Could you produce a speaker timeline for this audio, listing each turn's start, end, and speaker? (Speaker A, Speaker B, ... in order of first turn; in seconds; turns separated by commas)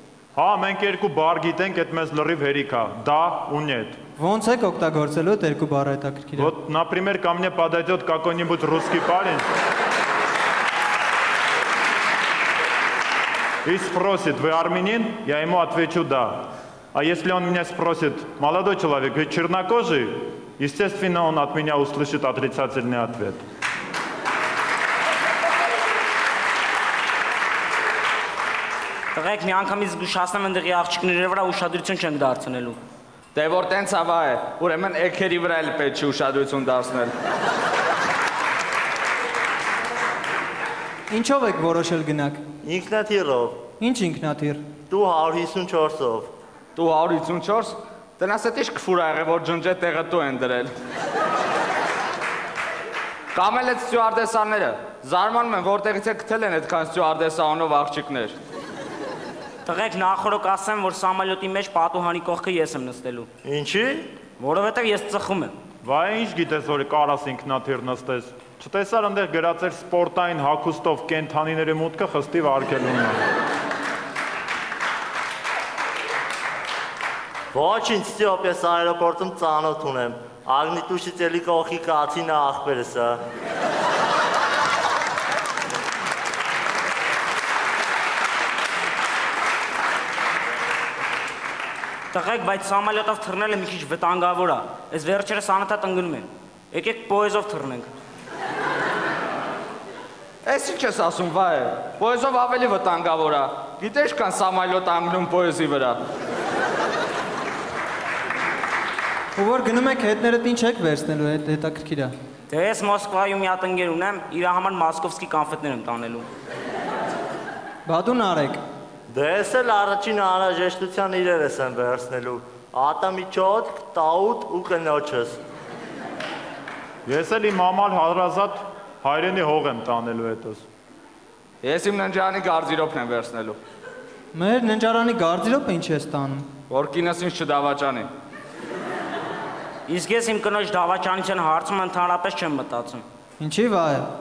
Speaker A: 0.3-4.0, Speaker B: 4.2-6.5, Speaker A: 6.4-9.4, Speaker A: 13.7-16.4, Speaker A: 16.9-23.4, Speaker C: 29.1-32.8, Speaker D: 33.4-37.1, Speaker B: 41.1-42.4, Speaker E: 42.6-43.6, Speaker B: 43.8-44.6, Speaker E: 44.9-46.3, Speaker D: 46.8-50.7, Speaker D: 53.3-58.4, Speaker C: 59.6-63.3, Speaker E: 63.4-64.1, Speaker C: 64.4-65.5, Speaker A: 65.8-73.2, Speaker E: 77.5-83.2, Speaker C: 92.1-97.9, Speaker D: 100.5-106.0, Speaker B: 109.4-112.1, Speaker C: 112.5-116.3, Speaker B: 117.9-118.6, Speaker E: 119.1-125.4, Speaker A: 127.0-130.6, Speaker D: 131.6-133.6, Speaker B: 134.3-136.5, Speaker D: 136.7-138.1, Speaker C: 139.9-143.0, Speaker B: 143.4-144.1